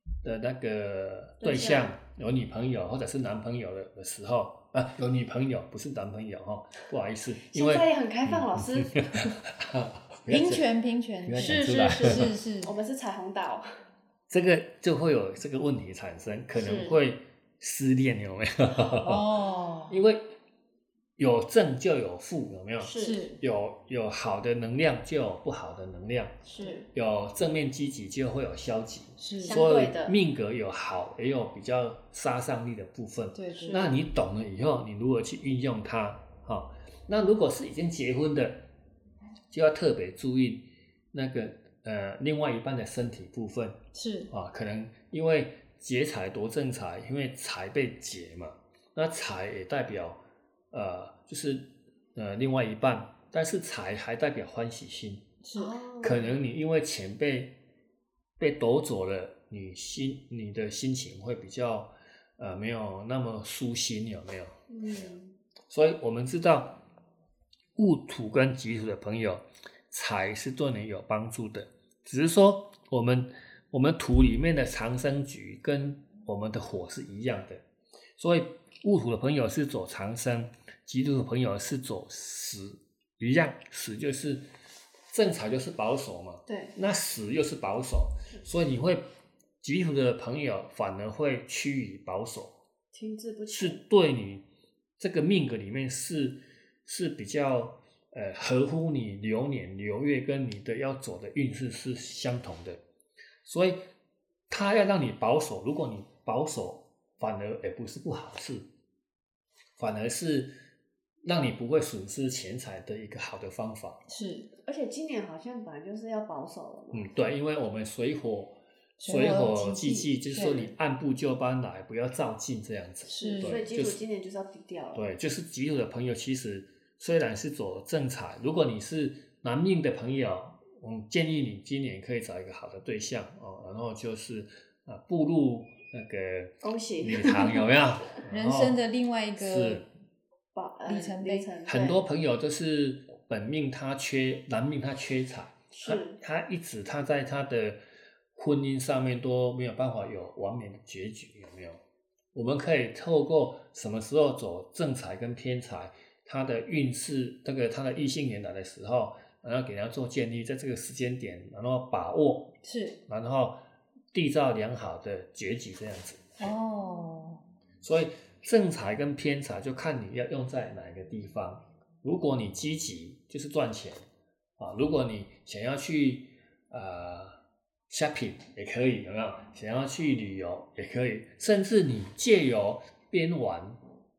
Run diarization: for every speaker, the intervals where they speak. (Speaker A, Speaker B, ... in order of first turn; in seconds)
Speaker A: 0.2-10.7, 11.2-12.3, 14.3-19.3, 19.9-20.3, 21.2-26.4, 26.9-38.6, 39.5-43.8, 44.3-50.2, 50.7-55.3, 56.0-57.6, 58.4-65.1, 65.7-66.8, 67.8-77.6, 78.2-84.4, 85.1-89.0, 89.6-92.5, 93.5-94.4, 95.0-102.8, 103.4-103.8, 104.5-108.7, 109.8-110.5, 111.2-114.0, 116.9-124.0, 124.9-138.8, 139.4-139.9, 141.7-147.8, 148.3-151.8, 152.3-162.6, 163.1-163.6, 164.1-166.5, 167.8-174.0, 174.6-177.4, 177.9-183.8
Speaker B: 1.4-1.9, 7.4-9.0, 11.3-13.7, 16.5-17.0, 22.8-23.2, 26.4-26.9, 29.4-30.2, 33.5-33.9, 55.5-56.3, 64.7-65.4, 86.5-86.7, 92.9-93.8, 114.6-117.1, 123.2-125.1, 136.6-137.7, 140.5-142.0, 145.7-146.2
Speaker C: 10.3-12.7, 18.9-20.0, 23.0-23.4, 29.2-29.6, 33.3-34.0, 43.9-44.3, 55.4-55.7, 114.1-114.5, 119.0-120.7, 123.0-123.6, 138.3-139.8, 140.9-141.5, 162.6-163.0, 166.4-167.4